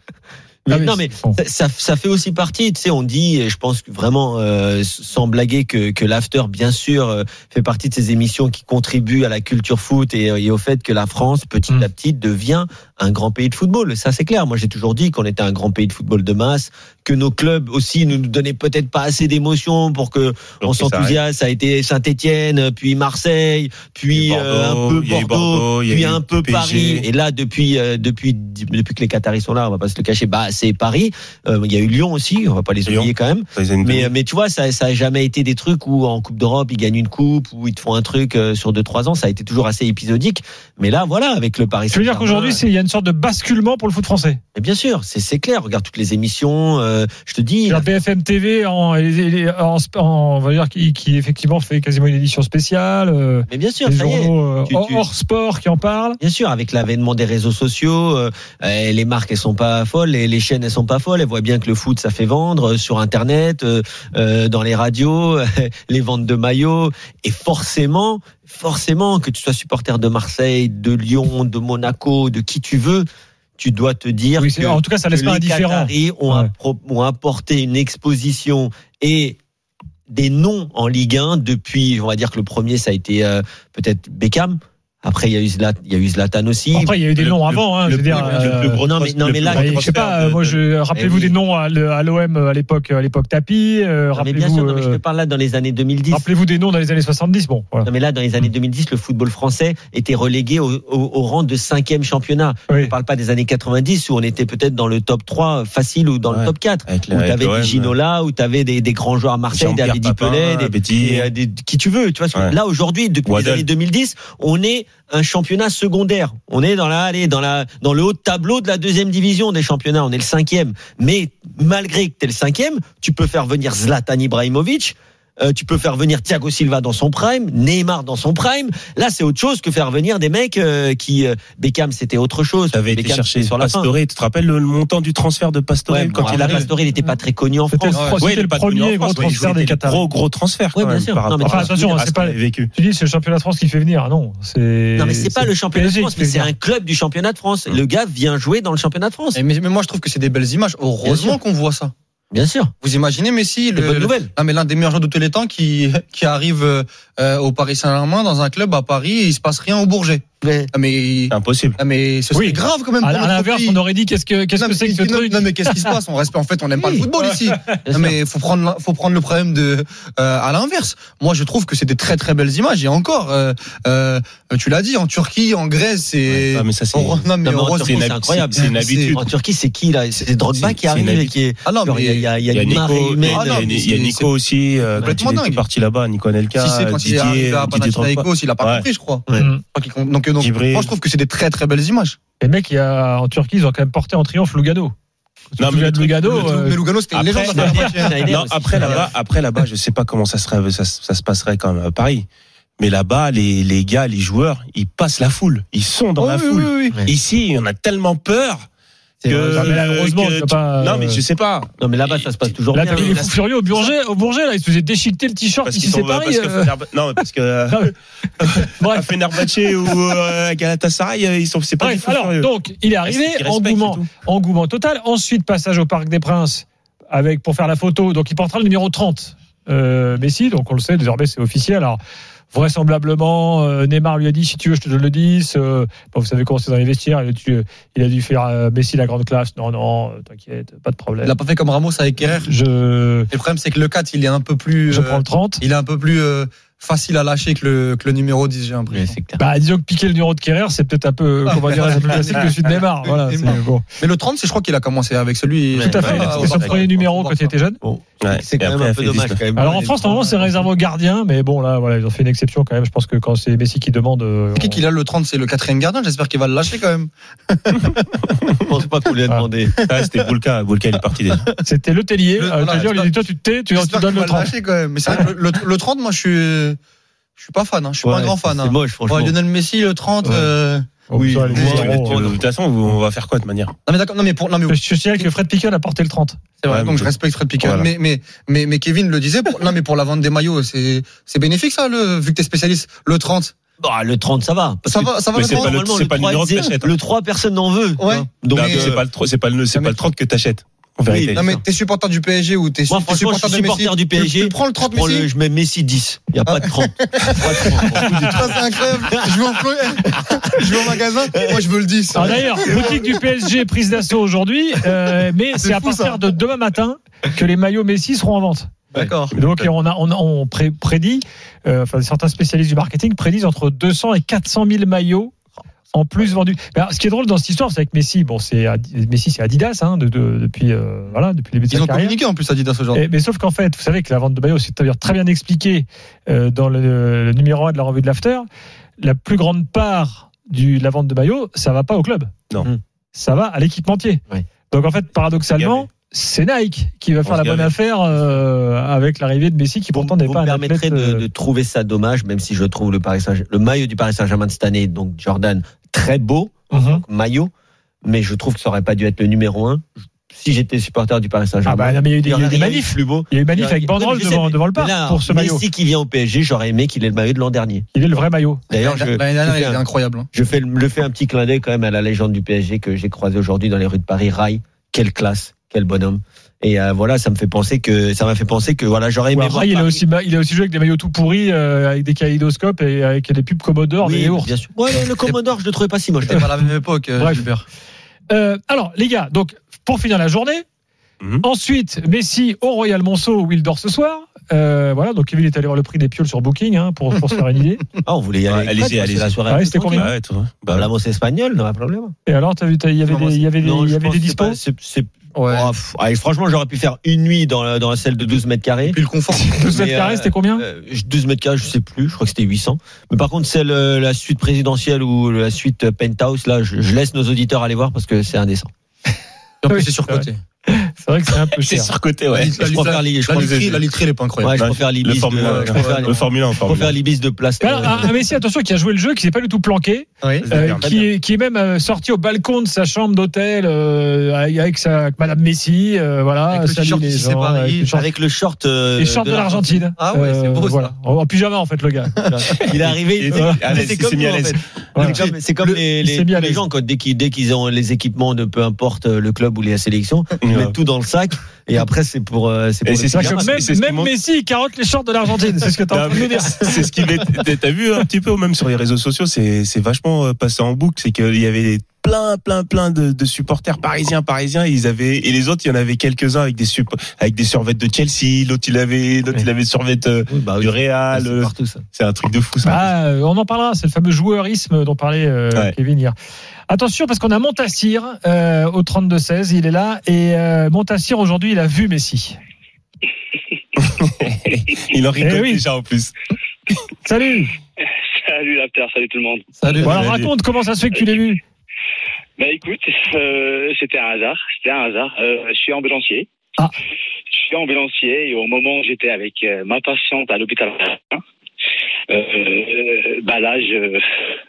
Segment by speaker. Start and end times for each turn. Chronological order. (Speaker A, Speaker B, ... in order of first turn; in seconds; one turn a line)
Speaker A: 0.7-42.6
Speaker B: 0.7-1.4
Speaker C: 20.6-21.2
Speaker C: 24.1-27.1
Speaker C: 32.8-34.1
Speaker B: 41.9-44.4
Speaker A: 44.5-47.9
Speaker B: 47.7-56.2
Speaker A: 53.5-55.0
Speaker A: 56.2-73.0
Speaker A: 73.6-79.4
Speaker B: 74.4-76.5
Speaker A: 80.1-87.0
Speaker B: 86.7-88.8
Speaker C: 87.1-90.6
Speaker A: 88.1-90.0
Speaker B: 89.5-95.0
Speaker A: 90.9-91.3
Speaker A: 94.1-96.3
Speaker B: 96.1-97.9
Speaker A: 97.8-133.9
Speaker B: 102.7-102.9
Speaker C: 106.3-107.9
Speaker C: 109.5-111.3
Speaker C: 113.2-113.7
Speaker C: 132.7-136.7
Speaker A: 135.9-138.1
Speaker B: 137.7-140.1
Speaker C: 138.2-142.7
Speaker A: 140.7-141.9
Speaker B: 141.4-146.5
Speaker A: 145.0-149.4
Speaker D: 149.3-151.9
Speaker A: 151.0-151.4
Speaker A: 152.3-152.7
Speaker D: 152.8-163.8
Speaker A: 153.7-154.3
Speaker A: 160.4-160.7
Speaker C: 161.3-161.8
Speaker B: 162.3-165.9
Speaker D: 164.6-179.2
Speaker B: 166.8-167.6
Speaker A: 167.8-168.2
Speaker C: 176.3-177.3
Speaker A: 177.4-183.8
Speaker C: 177.8-179.2
Speaker C: 180.5-181.3
Speaker D: 181.6-182.3
Speaker C: 182.5-188.9
Speaker D: 183.2-184.3
Speaker D: 184.9-185.6
Speaker D: 186.5-192.2
Speaker B: 189.3-189.6
Speaker C: 190.4-190.9
Speaker B: 192.4-194.9
Speaker C: 195.6-196.6
Speaker B: 195.6-196.8
Speaker D: 196.3-199.1
Speaker C: 197.1-202.2
Speaker A: 197.5-199.1
Speaker B: 197.5-197.8
Speaker C: 202.8-208.7
Speaker D: 206.2-207.0
Speaker A: 209.2-209.8
Speaker C: 209.2-213.3
Speaker B: 209.5-211.2
Speaker A: 211.8-213.3
Speaker B: 212.7-216.7
Speaker C: 215.6-217.9
Speaker B: 218.4-219.9
Speaker C: 218.4-222.5
Speaker B: 221.8-232.0
Speaker C: 223.0-224.1
Speaker B: 232.5-241.3
Speaker D: 241.2-242.5
Speaker B: 242.3-243.3
Speaker D: 243.3-249.2
Speaker B: 244.9-245.6
Speaker A: 248.9-249.4
Speaker B: 249.4-253.8
Speaker D: 251.5-257.5
Speaker A: 255.7-256.8
Speaker B: 255.8-257.8
Speaker C: 256.0-256.4
Speaker A: 257.8-260.6
Speaker C: 258.2-259.4
Speaker B: 259.5-264.8
Speaker D: 264.5-268.1
Speaker A: 268.7-269.7
Speaker D: 269.8-270.3
Speaker C: 269.9-271.4
Speaker D: 271.3-271.6
Speaker B: 271.6-274.5
Speaker D: 272.4-273.1
Speaker D: 273.7-276.8
Speaker D: 277.4-282.3
Speaker A: 278.0-279.3
Speaker B: 281.1-282.2
Speaker C: 281.5-283.7
Speaker D: 283.9-285.3
Speaker B: 284.7-286.4
Speaker D: 286.6-293.5
Speaker C: 286.7-287.9
Speaker A: 293.8-299.0
Speaker D: 294.8-295.8
Speaker C: 295.3-296.9
Speaker D: 298.0-298.9
Speaker C: 298.5-301.4
Speaker D: 299.7-300.0
Speaker A: 301.1-301.6
Speaker D: 301.3-305.3
Speaker A: 302.9-308.6
Speaker D: 306.4-313.1
Speaker A: 310.8-311.6
Speaker B: 312.1-318.7
Speaker A: 312.1-312.9
Speaker D: 315.5-316.2
Speaker D: 318.9-319.3
Speaker C: 319.3-319.7
Speaker B: 319.3-325.3
Speaker B: 325.9-332.2
Speaker D: 331.7-333.0
Speaker B: 332.9-338.4
Speaker B: 339.0-342.3
Speaker B: 343.1-351.3
Speaker C: 345.6-345.9
Speaker C: 347.2-347.7
Speaker A: 349.9-357.5
Speaker B: 356.7-357.0
Speaker A: 358.0-367.9
Speaker B: 361.6-365.6
Speaker B: 367.9-368.6
Speaker A: 368.7-369.8
Speaker D: 368.8-370.3
Speaker A: 370.3-380.0
Speaker B: 379.3-384.5
Speaker A: 384.0-386.4
Speaker D: 386.2-387.6
Speaker B: 387.2-387.5
Speaker B: 388.3-390.6
Speaker B: 391.4-397.9
Speaker A: 398.0-400.1
Speaker C: 398.5-400.9
Speaker B: 398.8-400.1
Speaker A: 400.7-402.1
Speaker B: 402.2-404.6
Speaker D: 403.1-403.4
Speaker A: 403.6-409.0
Speaker D: 405.3-405.7
Speaker D: 408.9-409.7
Speaker B: 409.4-410.6
Speaker A: 409.6-418.7
Speaker D: 419.6-420.4
Speaker B: 419.7-421.9
Speaker C: 421.6-422.6
Speaker D: 422.3-424.6
Speaker A: 422.6-423.7
Speaker C: 423.4-423.8
Speaker A: 424.4-428.2
Speaker C: 424.6-426.9
Speaker D: 425.4-426.2
Speaker B: 427.6-438.1
Speaker D: 430.2-430.5
Speaker C: 430.4-431.0
Speaker D: 436.5-437.9
Speaker A: 437.9-439.9
Speaker B: 439.0-442.1
Speaker D: 440.0-440.9
Speaker A: 442.3-453.6
Speaker C: 442.6-445.1
Speaker B: 443.3-443.8
Speaker B: 444.9-446.6
Speaker D: 445.0-445.3
Speaker C: 450.4-450.7
Speaker C: 452.9-454.1
Speaker B: 453.1-457.2
Speaker C: 455.9-472.9
Speaker A: 470.3-471.8
Speaker B: 472.6-476.1
Speaker B: 476.7-482.4
Speaker C: 483.8-486.1
Speaker B: 485.2-485.6
Speaker B: 487.0-487.5
Speaker E: 488.2-489.8
Speaker D: 489.6-490.1
Speaker C: 489.8-490.3
Speaker B: 489.8-491.4
Speaker E: 492.4-496.3
Speaker E: 497.3-501.2
Speaker E: 502.1-504.0